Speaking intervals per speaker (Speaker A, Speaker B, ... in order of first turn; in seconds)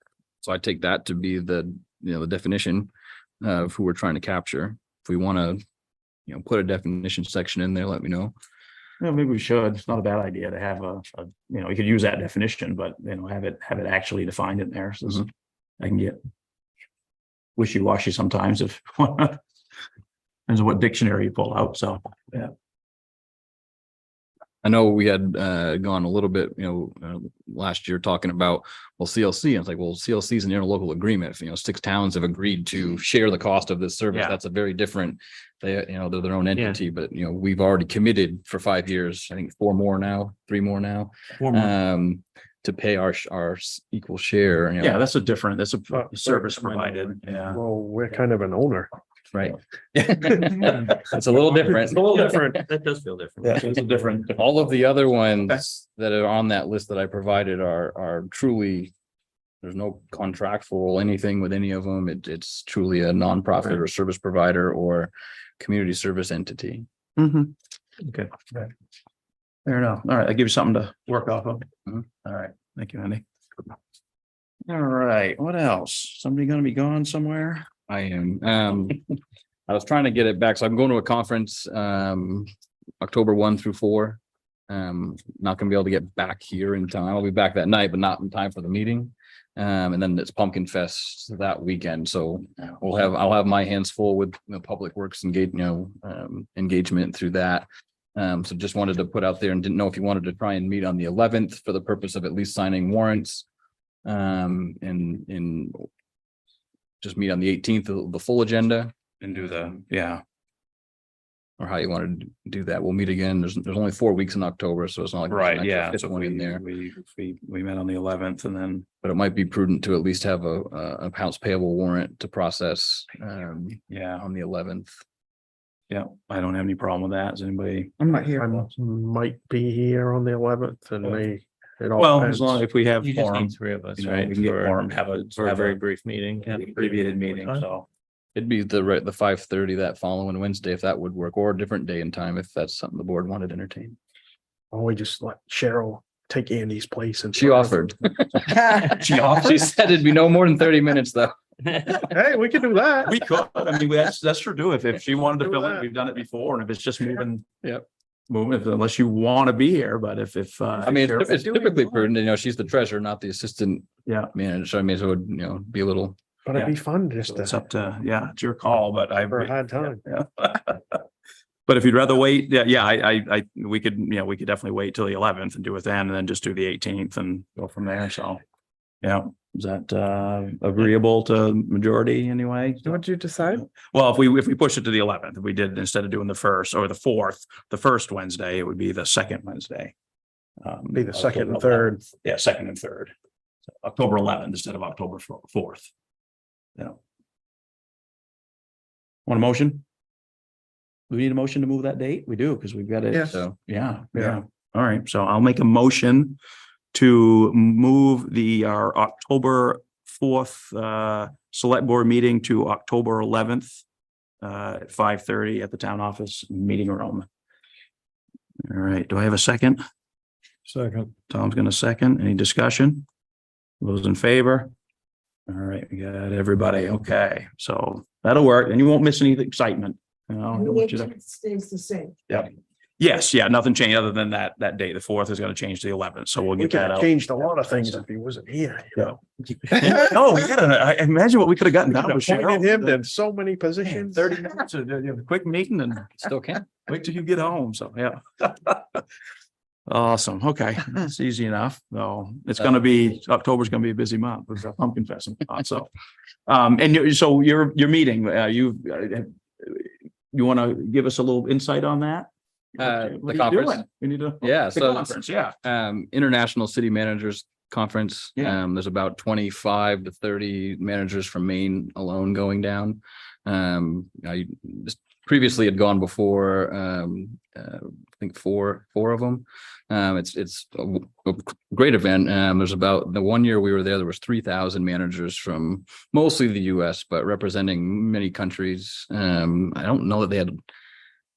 Speaker A: 0.4-2.9, 3.4-5.6, 6.3-8.3, 24.6-45.0, 49.3-52.6, 54.3-58.9, 59.6-66.9, 77.9-79.0, 79.7-82.5, 83.0-103.5, 104.0-105.9, 107.0-108.9, 111.6-116.6, 119.0-124.9, 138.3-144.0, 147.3-152.0, 160.8-166.2, 203.2-203.6, 246.2-246.6, 262.8-263.8, 264.4-290.5
Speaker B: 9.0-15.3, 15.8-16.2, 17.6-19.4, 20.5-22.5, 34.1-34.4, 41.4-41.7, 44.8-47.6, 50.2-50.9, 53.4-54.4, 67.2-68.5, 69.7-71.7, 72.2-73.2, 74.7-77.7, 109.2-110.2, 115.3-118.9, 123.9-124.2, 125.9-128.5, 132.0-135.8, 136.4-137.9, 148.5-149.7, 153.0-157.5, 158.3-161.7, 164.1-164.3, 166.5-171.0, 171.7-178.4, 179.0-189.9, 190.6-193.1, 193.8-195.9, 199.3-199.8, 201.1-206.4, 206.9-213.8, 214.4-217.3, 218.7-219.8, 221.3-223.1, 223.8-224.7, 225.5-231.3, 232.3-238.0, 239.0-242.9, 243.8-246.3, 246.8-249.0, 249.9-255.9, 256.5-265.6
Speaker C: 45.9-46.5, 47.5-48.9, 128.2-132.6, 144.7-147.9, 152.0-153.2, 155.5-155.8, 166.4-167.6, 169.3-170.0, 190.9-192.0, 236.6-239.2, 241.9-244.3
Speaker D: 51.7-54.0, 128.1-128.4, 133.0-137.7
Speaker E: 182.9-183.6, 230.6-232.1